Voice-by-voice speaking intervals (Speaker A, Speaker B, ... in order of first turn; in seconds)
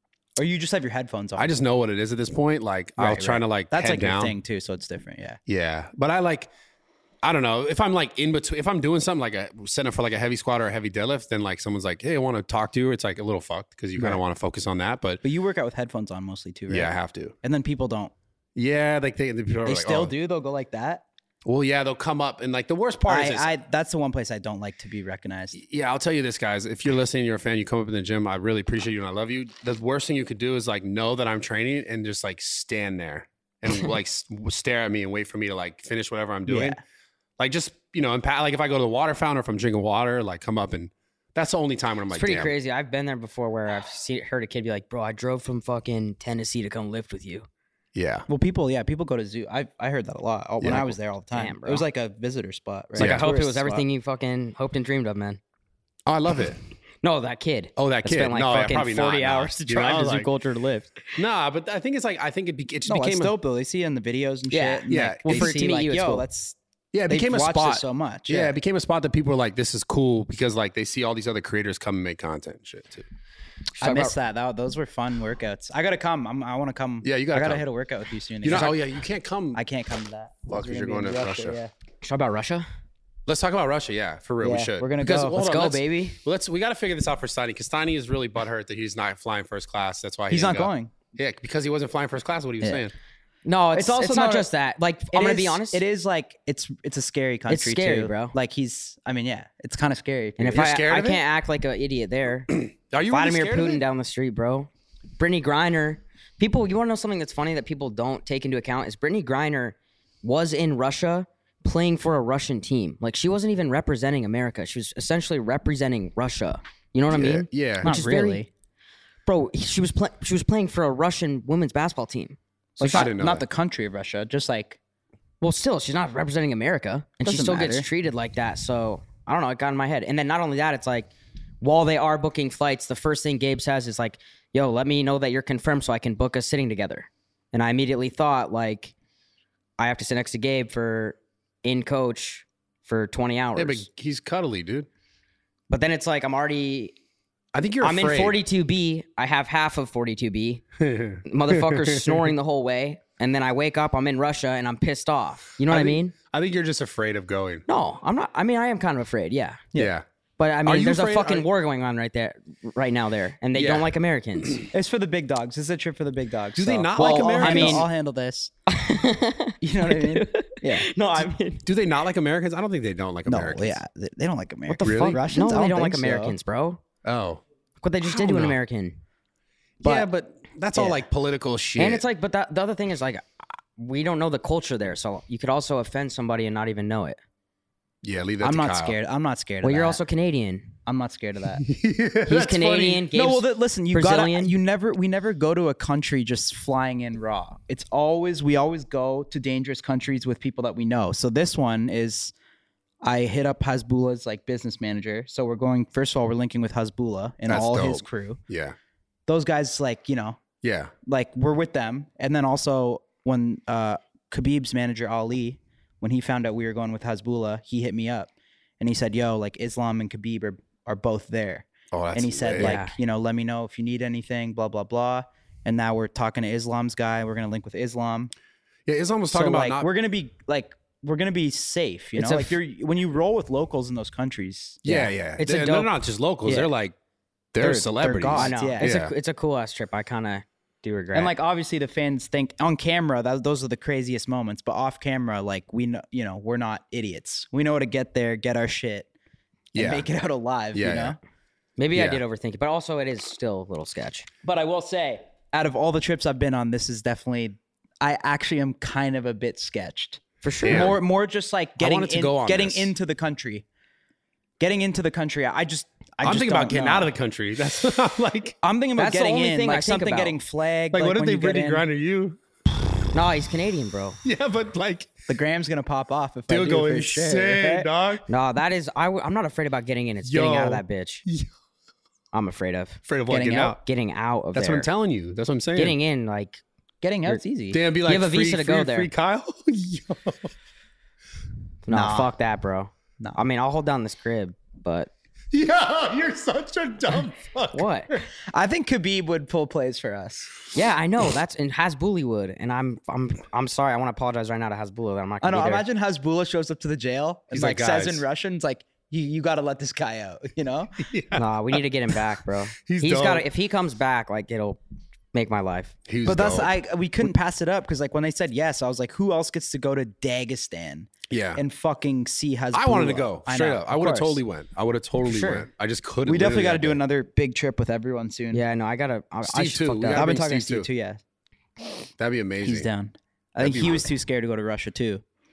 Speaker A: 0.4-1.6, 3.0-5.4, 15.2-16.9, 17.4-18.1, 19.6-21.0, 23.1-25.5, 36.5-36.8, 48.3-53.8, 62.9-66.5, 67.1-68.5, 73.8-78.8, 79.5-81.7, 84.4-85.4, 90.3-90.9, 93.7-94.5, 95.1-100.6, 117.8-118.5, 122.8-124.8, 127.2-127.9, 164.7-168.5, 169.6-171.3, 173.2-176.3, 179.8-180.1, 188.4-190.0, 190.8-191.6, 193.1-202.3, 203.0-208.4, 209.3-210.4, 211.1-228.3, 229.3-235.9, 237.6-238.9, 241.1-249.1, 249.7-251.2, 254.4-263.6, 264.6-267.1, 268.6-271.8, 275.3-277.9, 283.3-283.8, 287.0-287.8, 291.9-292.3, 298.5-300.6, 305.4-311.1, 316.2-324.4, 326.2-328.6, 330.1-331.2, 332.6-335.2
Speaker B: 1.4-4.3, 5.5-6.5, 7.2-15.2, 16.7-17.3, 18.6-20.1, 21.4-23.5, 25.5-36.8, 37.4-42.5, 47.9-48.3, 50.6-51.0, 53.0-53.2, 56.0-56.6, 57.8-60.3, 61.1-63.3, 64.9-65.6, 66.9-73.0, 77.0-77.6, 78.4-79.6, 80.5-81.6, 83.3-92.9, 100.5-101.2, 102.5-103.8, 117.1-117.9, 122.9-123.4, 143.6-144.9, 147.5-148.4, 150.8-152.3, 155.7-157.6, 159.7-160.0, 160.6-161.5, 163.5-163.9, 166.6-167.9, 171.6-173.8, 174.8-175.2, 177.0-177.4, 178.0-178.6, 179.8-182.0, 188.0-188.9, 191.6-193.1, 207.5-208.8, 210.6-210.9, 221.9-222.8, 228.9-229.9, 234.8-236.9, 237.5-239.1, 249.7-250.1, 250.7-251.2, 251.9-252.2, 260.6-261.0, 261.8-262.9, 266.2-268.6, 270.9-272.4, 274.2-275.1, 276.5-278.2, 280.2-281.5, 283.1-283.8, 284.5-286.0, 287.7-290.5, 295.5-298.2, 307.5-308.2, 311.1-311.8, 312.9-313.5, 316.1-317.3, 321.3-321.6, 322.7-327.0, 329.4-330.9, 332.2-332.9, 333.6-334.1
Speaker C: 42.1-47.5, 51.3-51.8, 52.9-55.4, 57.0-60.9, 64.5-66.2, 73.8-74.1, 82.0-82.7, 85.3-86.2, 93.4-95.8, 97.5-98.3, 100.4-102.5, 103.1-118.4, 119.2-123.1, 125.4-138.9, 139.8-143.8, 145.7-146.9, 147.8-150.6, 151.2-156.1, 157.7-159.6, 160.4-164.7, 167.0-167.9, 168.7-171.6, 174.7-176.8, 177.8-179.0, 181.8-183.2, 183.8-187.2, 189.6-190.7, 192.3-194.5, 222.6-222.9, 232.2-232.5, 238.3-241.3, 251.8-254.3, 260.4-260.9, 268.9-270.4, 273.1-274.2, 278.3-281.2, 282.3-283.0, 283.8-284.9, 285.8-286.6, 288.0-289.1, 291.9-295.1, 297.7-298.1, 300.7-305.8, 311.3-314.8, 315.3-315.9, 325.2-325.7, 328.5-330.4